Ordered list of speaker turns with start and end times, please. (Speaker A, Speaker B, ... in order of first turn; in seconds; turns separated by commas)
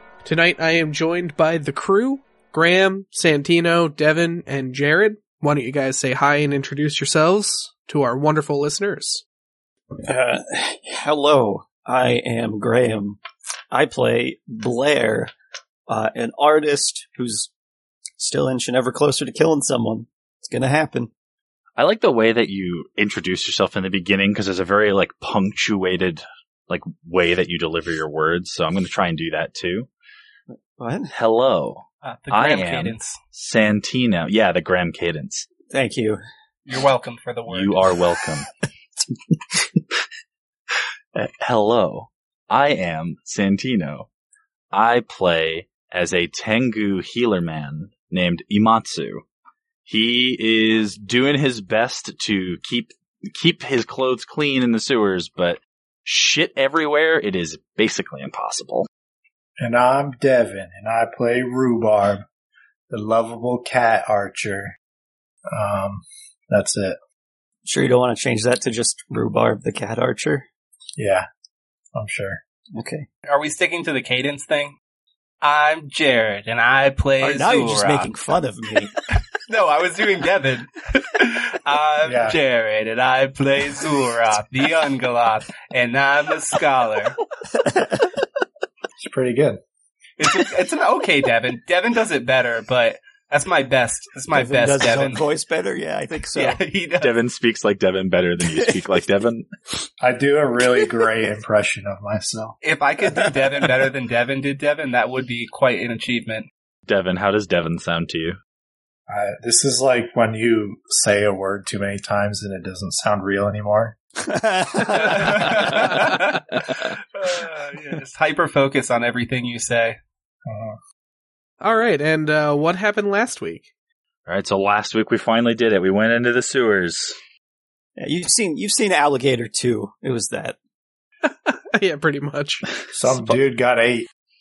Speaker A: 0.2-9.2, Speaker B: 10.1-13.2, Speaker B: 13.7-15.3, Speaker B: 15.9-17.5, Speaker B: 18.2-21.1, Speaker C: 21.8-29.9, Speaker B: 30.5-31.1, Speaker C: 31.1-35.5, Speaker D: 32.0-33.2, Speaker B: 35.7-36.2, Speaker D: 36.7-37.8, Speaker C: 37.5-38.5, Speaker C: 41.1-44.1, Speaker C: 44.7-49.2, Speaker C: 49.8-58.9, Speaker E: 59.6-62.2, Speaker E: 62.9-64.8, Speaker E: 65.5-67.0, Speaker B: 67.6-70.5, Speaker E: 71.0-71.2, Speaker E: 71.9-72.4, Speaker B: 72.7-73.0, Speaker D: 73.3-74.8, Speaker D: 75.4-78.1, Speaker B: 77.2-78.9, Speaker D: 79.1-87.2, Speaker E: 82.0-82.4, Speaker B: 87.5-88.1, Speaker E: 89.0-89.6, Speaker D: 90.2-95.2, Speaker B: 94.3-96.6, Speaker D: 96.3-97.1, Speaker C: 97.0-99.5, Speaker B: 98.5-98.8, Speaker E: 100.0-102.5, Speaker D: 102.6-106.5, Speaker C: 106.8-108.3, Speaker E: 109.1-113.9, Speaker B: 114.2-115.7, Speaker D: 114.9-120.0, Speaker E: 120.5-120.8, Speaker A: 121.6-123.7, Speaker C: 124.2-127.2, Speaker B: 128.0-130.6, Speaker A: 131.2-132.7, Speaker E: 132.9-134.1